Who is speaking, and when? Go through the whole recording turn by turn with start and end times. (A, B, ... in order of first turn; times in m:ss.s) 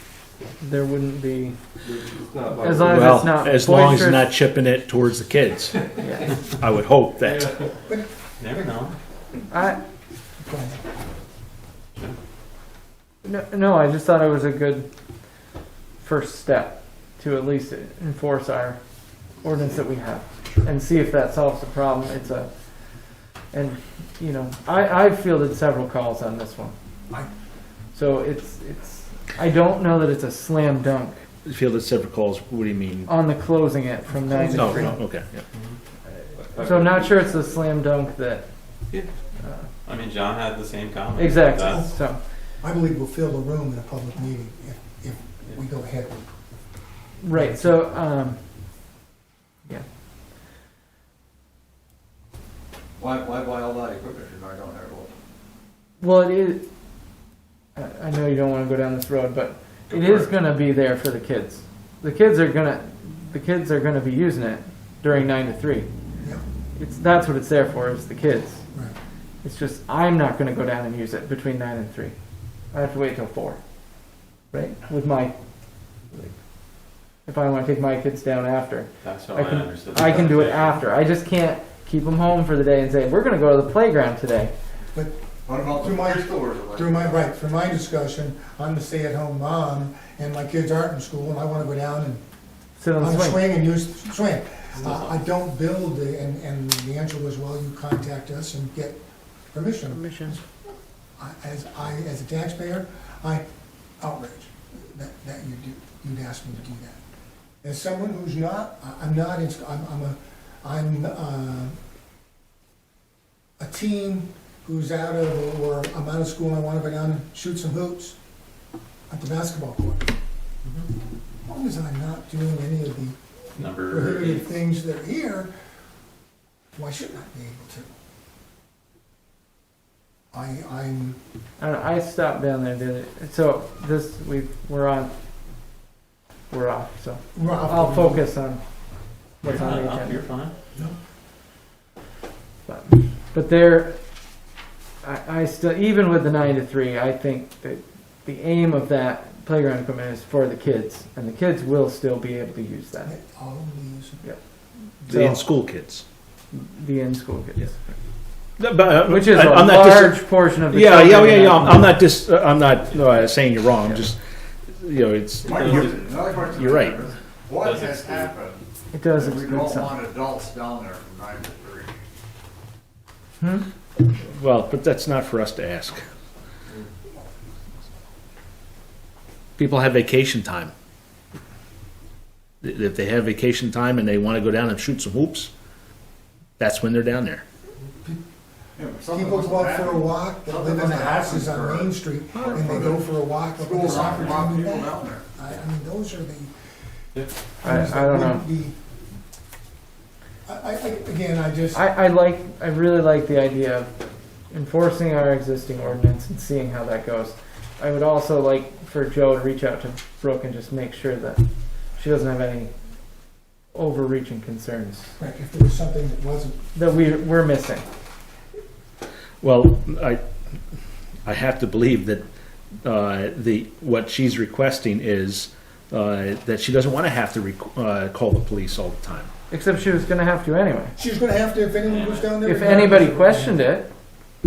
0:00.6-0:01.6 A
0:01.8-0:03.2 B
0:02.6-0:04.3 A
0:02.8-0:06.0 C
0:06.0-0:06.4 A
0:06.5-0:07.6 C
0:07.3-0:07.7 B
0:08.4-0:09.0 D
0:09.5-0:09.8 A
0:10.4-0:10.8 E
0:13.2-0:14.9 A
0:16.0-0:18.8 A
0:19.4-0:22.5 A
0:23.5-0:26.7 A
0:27.9-0:31.2 A
0:31.5-0:33.1 C
0:33.1-0:35.0 A
0:34.1-0:35.0 E
0:34.5-0:35.4 C
0:36.4-0:37.2 B
0:36.6-0:38.5 A
0:39.4-0:39.7 A
0:39.8-0:41.8 D
0:41.2-0:42.2 A
0:41.6-0:42.0 E
0:42.6-0:46.2 E
0:47.2-0:48.4 A
0:47.3-0:47.8 E
0:53.0-0:55.1 F
0:56.0-0:56.7 A
0:57.8-1:05.9 A
1:06.8-1:08.6 A
1:09.4-1:12.2 A
1:12.7-1:13.6 A
1:14.5-1:15.4 A
1:16.1-1:16.4 A
1:17.3-1:24.5 A
1:19.0-1:20.8 D
1:24.9-1:32.2 E
1:25.5-1:27.2 F
1:32.8-1:33.5 A
1:33.0-1:39.0 E
1:34.8-1:35.1 D
1:39.5-1:40.4 E
1:41.2-1:43.4 E
1:44.0-1:47.0 E
1:47.6-1:51.8 E
1:53.6-1:58.2 E
1:59.1-2:00.1 E
2:01.4-2:03.2 E
2:03.6-2:04.5 D
2:03.8-2:05.5 E
2:06.8-2:07.9 E
2:10.3-2:11.2 E
2:11.6-2:15.1 A
2:16.5-2:18.6 A
2:17.4-2:18.2 E
2:19.4-2:20.2 A
2:19.5-2:20.5 D
2:22.7-2:24.0 A
2:25.0-2:33.1 A
2:33.0-2:34.2 E
2:35.0-2:35.4 A
2:35.0-2:36.0 C
2:36.5-2:37.9 A
2:38.6-2:47.1 C
2:39.0-2:41.9 A
2:45.4-2:48.6 F
2:45.5-2:45.9 D
2:47.5-2:48.4 D
2:48.9-2:50.0 A
2:49.1-2:52.0 F
2:53.4-2:53.7 A
2:54.0-2:56.0 C
2:59.6-3:00.7 C
3:02.6-3:05.5 C
3:06.6-3:07.4 C
3:08.8-3:15.2 F
3:09.1-3:16.5 E
3:12.4-3:12.7 C
3:17.6-3:18.8 E
3:17.6-3:18.5 A
3:20.5-3:21.8 E
3:21.7-3:24.0 A
3:24.5-3:31.4 A
3:32.0-3:32.7 A
3:33.7-3:35.1 A
3:35.2-3:36.6 E
3:36.7-3:37.8 A
3:39.4-3:40.2 C
3:41.3-3:42.2 C
3:42.8-3:49.3 C
3:49.5-3:50.9 A
3:51.0-3:53.6 E
3:51.8-3:52.3 D
3:52.4-3:53.9 A